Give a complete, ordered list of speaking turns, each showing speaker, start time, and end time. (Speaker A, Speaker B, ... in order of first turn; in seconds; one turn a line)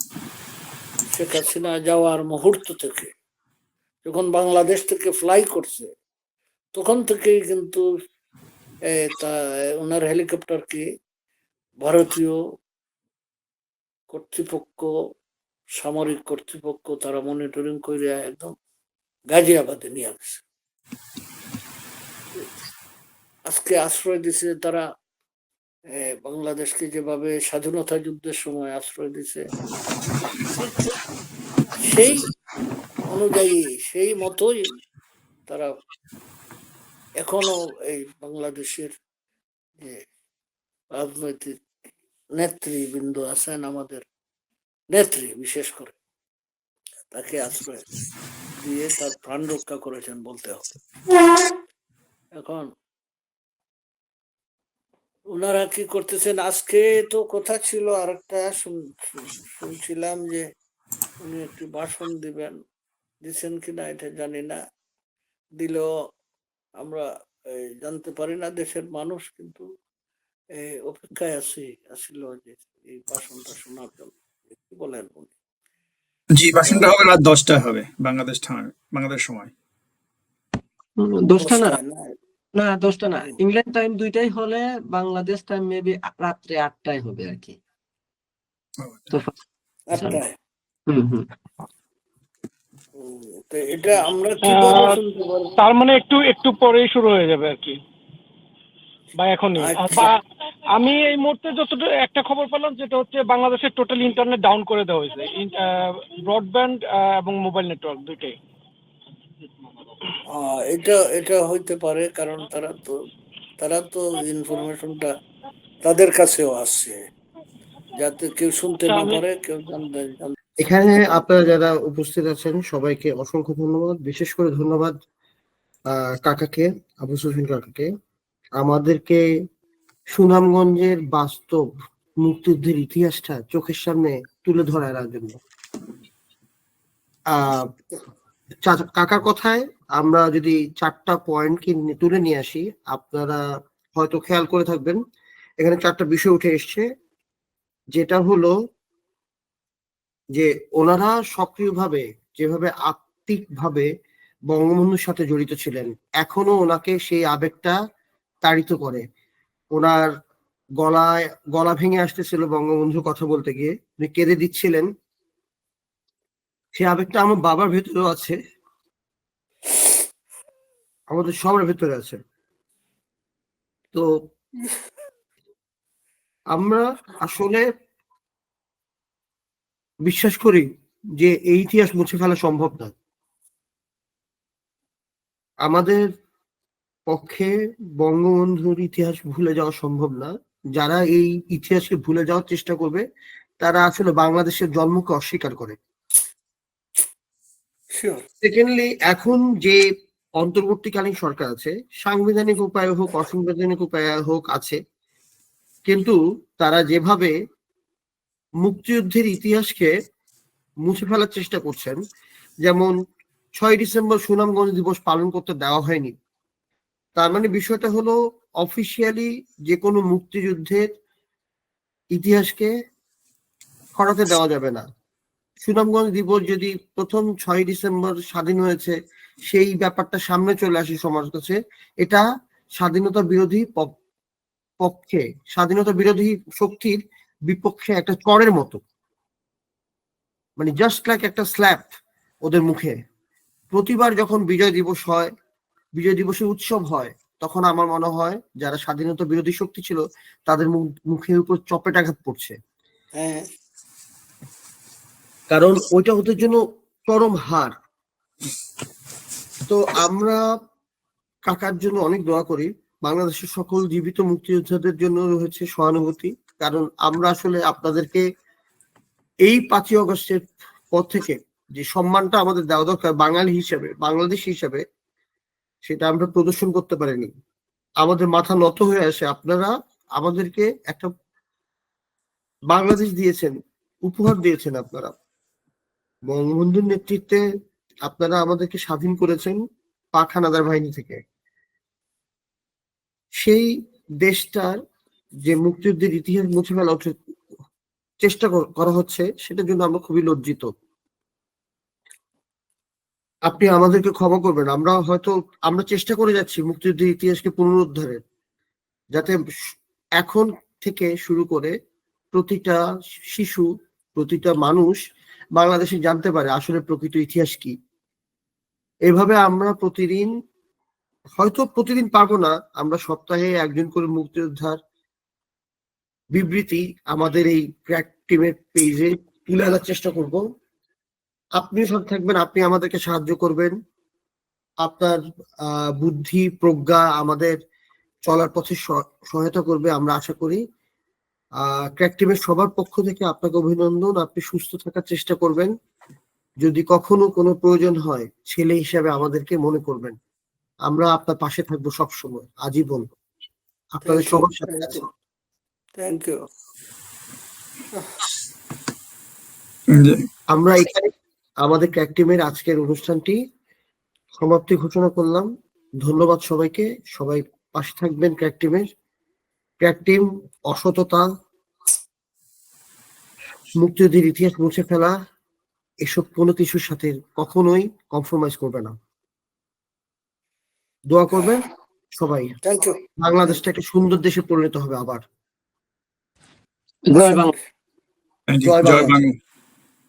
Speaker A: 1.1-3.1
Speaker A: 4.0-5.9
Speaker A: 6.7-7.8
Speaker A: 8.9-10.8
Speaker A: 11.8-12.4
Speaker A: 14.1-14.9
Speaker A: 15.8-18.5
Speaker A: 19.3-20.4
Speaker A: 23.5-24.8
Speaker A: 26.0-29.4
Speaker A: 30.6-30.9
Speaker A: 31.8-32.3
Speaker A: 33.1-34.6
Speaker A: 37.2-38.9
Speaker A: 40.9-41.5
Speaker A: 42.4-44.0
Speaker A: 44.9-46.0
Speaker A: 47.1-47.8
Speaker A: 48.5-50.7
Speaker A: 52.4-52.7
Speaker A: 55.3-60.5
Speaker A: 61.2-62.5
Speaker A: 63.2-64.6
Speaker A: 65.6-65.9
Speaker A: 66.8-67.1
Speaker A: 67.8-69.6
Speaker A: 70.6-75.3
Speaker B: 76.3-79.5
Speaker C: 81.0-81.8
Speaker A: 81.4-82.1
Speaker C: 82.5-87.6
Speaker B: 88.8-89.1
Speaker A: 89.9-90.3
Speaker C: 90.9-91.2
Speaker A: 93.0-95.5
Speaker D: 94.4-95.0
Speaker D: 95.6-97.8
Speaker D: 99.2-100.2
Speaker A: 99.5-100.1
Speaker D: 100.7-108.3
Speaker A: 110.3-112.9
Speaker A: 113.6-115.1
Speaker A: 115.8-117.0
Speaker A: 117.9-120.3
Speaker D: 118.9-119.2
Speaker E: 120.6-124.9
Speaker E: 125.9-127.9
Speaker E: 128.6-129.2
Speaker E: 130.1-131.6
Speaker E: 132.2-135.4
Speaker E: 137.3-137.7
Speaker E: 138.6-143.4
Speaker E: 143.9-145.0
Speaker E: 145.6-146.8
Speaker E: 147.9-148.5
Speaker E: 150.3-153.9
Speaker E: 154.5-157.8
Speaker E: 158.4-159.0
Speaker E: 159.8-160.1
Speaker E: 160.8-164.9
Speaker E: 166.8-168.4
Speaker E: 171.1-172.2
Speaker E: 176.5-177.7
Speaker E: 180.1-180.7
Speaker E: 181.2-182.9
Speaker E: 185.6-186.0
Speaker E: 187.1-193.0
Speaker E: 193.6-195.8
Speaker A: 197.9-198.2
Speaker E: 198.4-199.8
Speaker E: 200.4-204.8
Speaker E: 205.9-207.3
Speaker E: 208.6-209.9
Speaker E: 210.8-212.0
Speaker E: 212.6-212.9
Speaker E: 213.6-216.1
Speaker E: 217.2-220.8
Speaker E: 222.1-222.7
Speaker E: 223.9-224.8
Speaker E: 225.6-228.9
Speaker E: 229.5-232.2
Speaker E: 232.8-233.9
Speaker E: 234.8-238.8
Speaker E: 240.6-241.9
Speaker E: 242.4-242.9
Speaker E: 243.7-245.3
Speaker E: 246.0-252.5
Speaker A: 253.2-253.5
Speaker E: 255.5-257.7
Speaker E: 259.7-260.4
Speaker E: 261.5-268.2
Speaker E: 269.4-274.8
Speaker E: 275.9-277.3
Speaker E: 278.0-281.1
Speaker E: 282.7-283.5
Speaker E: 284.1-285.1
Speaker E: 286.3-287.4
Speaker E: 288.1-289.6
Speaker E: 290.1-291.2
Speaker E: 293.4-293.7
Speaker E: 294.2-294.8
Speaker E: 295.4-297.1
Speaker E: 298.2-300.7
Speaker E: 303.5-308.2
Speaker E: 310.2-311.7
Speaker E: 312.3-312.8
Speaker E: 313.3-315.0
Speaker E: 315.6-317.7
Speaker E: 319.1-320.3
Speaker E: 321.4-324.8
Speaker E: 326.3-330.4
Speaker E: 331.6-333.7
Speaker E: 334.8-337.5
Speaker E: 338.3-340.6
Speaker E: 341.6-345.7
Speaker E: 346.6-350.1
Speaker E: 350.9-353.1
Speaker E: 354.0-355.0
Speaker A: 354.0-355.0
Speaker A: 356.0-356.4
Speaker B: 359.9-360.2
Speaker E: 360.5-361.1
Speaker E: 361.6-363.4
Speaker E: 364.4-365.5
Speaker E: 366.0-368.8
Speaker E: 369.8-371.2
Speaker E: 373.8-375.1
Speaker E: 376.1-378.9
Speaker E: 381.1-381.6
Speaker E: 382.2-382.5
Speaker A: 382.6-383.6
Speaker E: 383.2-385.2
Speaker C: 387.1-387.5
Speaker A: 387.1-387.6
Speaker B: 388.5-389.4
Speaker E: 388.6-389.2